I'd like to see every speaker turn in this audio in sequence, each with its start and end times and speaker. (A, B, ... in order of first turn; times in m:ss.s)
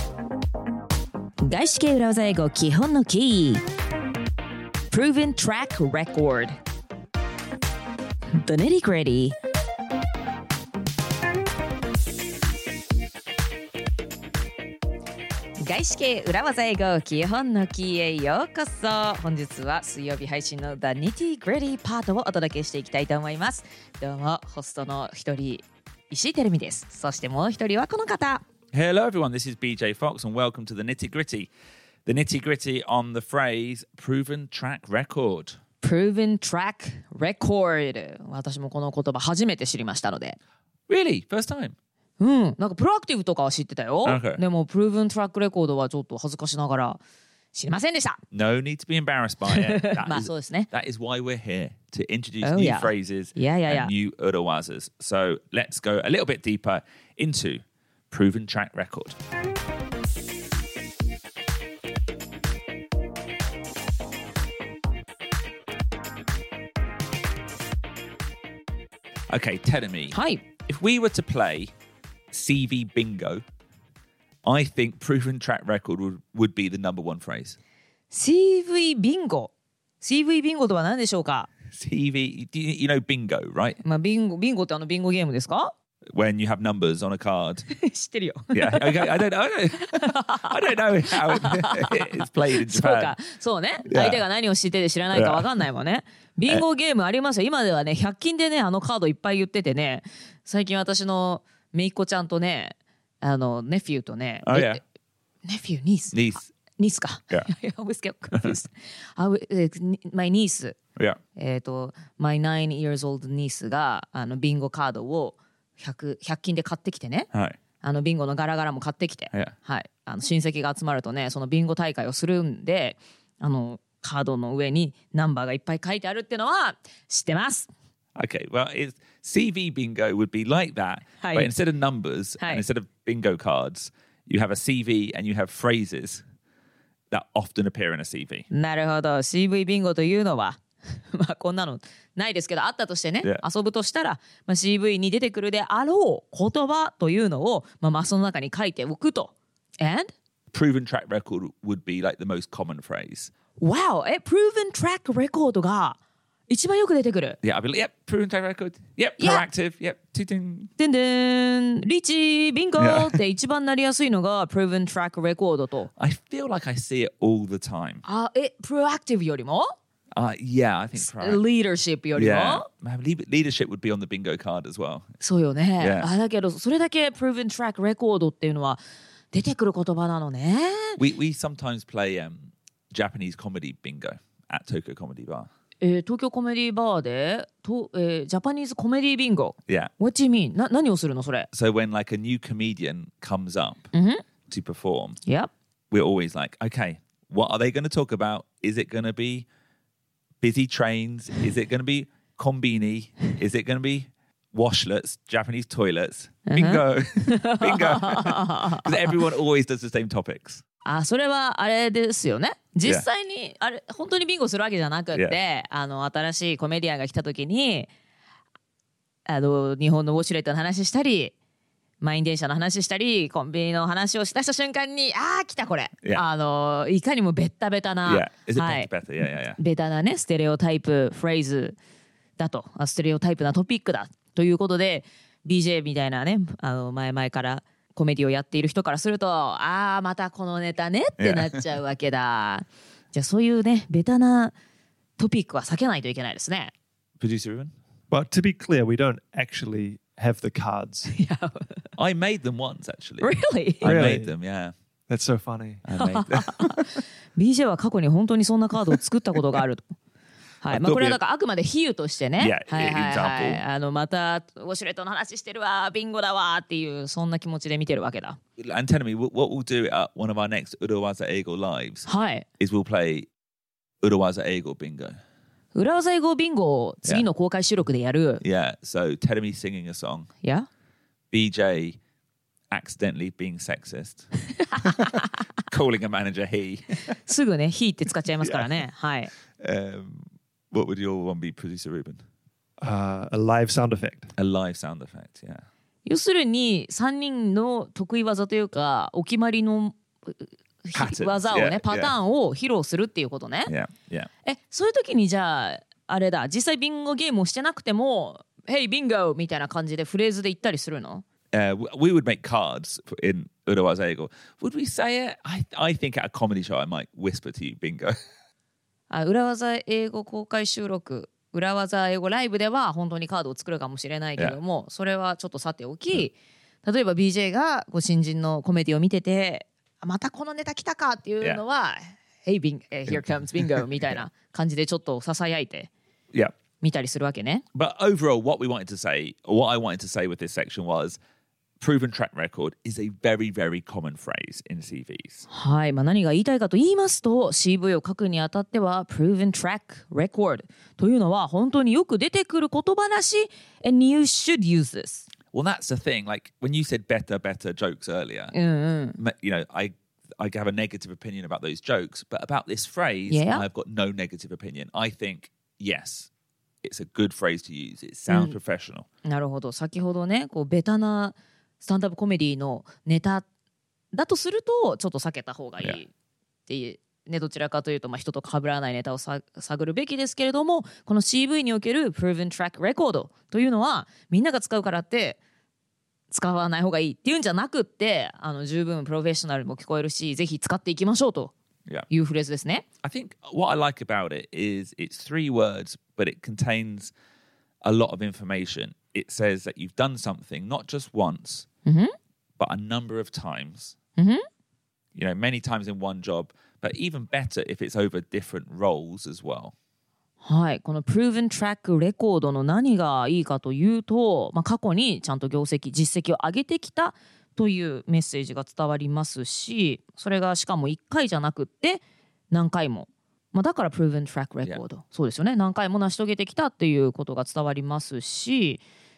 0:01.4-0:03.6 A
0:04.9-0:06.6 A
0:08.3-0:09.4 A
0:15.6-0:28.4 A
0:28.7-0:31.5 B
0:32.0-0:35.6 B
0:35.8-0:40.4 A
0:40.9-0:41.8 B
0:42.2-0:47.0 A
0:44.0-0:44.4 B
0:47.5-0:48.2 A
0:48.3-0:59.2 B
0:49.5-0:50.7 A
0:52.4-0:53.9 A
1:09.3-1:11.7 B
1:10.1-1:10.4 A
1:12.3-1:13.4 B
1:14.4-1:17.6 B
1:18.1-1:21.5 A
1:21.7-1:23.8 B
1:23.8-1:25.7 A
1:26.1-1:27.6 B
1:27.7-1:29.2 A
1:28.5-1:33.1 B
1:29.7-1:44.8 A
1:33.9-1:34.2 B
1:35.1-1:35.4 B
1:44.4-1:44.8 B
1:45.4-1:50.8 A
1:46.1-1:46.5 B
1:51.4-1:57.3 A
1:57.3-1:57.6 B
1:57.8-2:07.7 A
2:08.2-2:16.2 B
2:11.2-2:11.5 A
2:17.1-2:18.5 B
2:18.5-2:20.6 A
2:21.1-2:30.1 A
2:30.5-2:33.3 B
2:33.6-2:36.0 A
2:36.5-2:37.4 A
2:37.4-2:40.7 B
2:39.2-2:39.4 A
2:40.8-2:45.9 A
2:42.8-2:43.2 B
2:46.0-2:48.0 B
2:48.0-2:49.7 A
2:50.2-2:51.4 B
2:51.0-2:52.6 A
2:52.1-2:55.1 B
2:55.2-2:58.8 A
2:55.8-2:56.1 B
2:59.3-3:01.0 A
3:01.0-3:05.5 B
3:05.8-3:11.5 A
3:11.5-3:13.9 B
3:13.9-3:14.2 A
3:14.5-3:15.2 B
3:15.2-3:15.5 A
3:15.9-3:19.4 B
3:20.4-3:30.6 B
3:26.5-3:29.2 A
3:30.8-3:37.9 A
3:39.2-3:41.3 A
3:42.0-3:48.9 A
3:48.0-3:49.6 B
3:49.6-3:51.8 A
3:52.4-4:04.5 A
4:01.2-4:01.6 B
4:05.2-4:06.7 A
4:07.2-4:07.7 B
4:08.1-4:11.1 C
4:11.1-4:11.9 A
4:12.0-4:14.7 B
4:13.2-4:14.0 A
4:13.8-4:14.3 C
4:15.1-4:15.8 C
4:15.8-4:16.9 B
4:16.0-4:19.9 A
4:20.6-4:28.4 A
4:20.7-4:21.2 B
4:22.4-4:23.6 B
4:28.6-4:32.1 B
4:32.0-4:32.5 A
4:32.6-4:33.3 B
4:34.0-4:35.2 B
4:35.7-4:38.4 A
4:38.4-4:40.3 B
4:41.3-4:42.0 B
4:42.7-4:44.3 B
4:44.8-4:45.2 A
4:45.7-4:47.0 B
4:47.2-4:49.3 A
4:49.6-4:52.2 B
4:52.8-4:54.3 C
4:54.4-4:55.6 B
4:56.0-5:03.7 A
5:00.9-5:02.1 B
5:03.7-5:04.3 B
5:04.4-5:11.2 A
5:11.5-5:18.2 B
5:19.1-5:35.9 A
5:33.1-5:34.2 B
5:36.8-5:37.6 A
5:37.7-5:41.2 B
5:41.8-5:45.4 B
5:45.5-5:55.3 A
5:55.5-5:58.5 B
5:58.5-5:59.2 A
5:59.2-6:06.3 B
6:03.3-6:03.6 A
6:06.8-6:09.0 B
6:08.3-6:08.6 A
6:09.2-6:13.4 A
6:14.1-6:16.1 A
6:16.7-6:25.4 A
6:26.3-6:31.5 A
6:32.1-6:32.8 A
6:33.0-6:37.1 B
6:37.8-6:41.7 B
6:41.8-6:42.1 A
6:42.6-6:44.0 B
6:45.1-6:49.7 B
6:50.4-7:08.8 A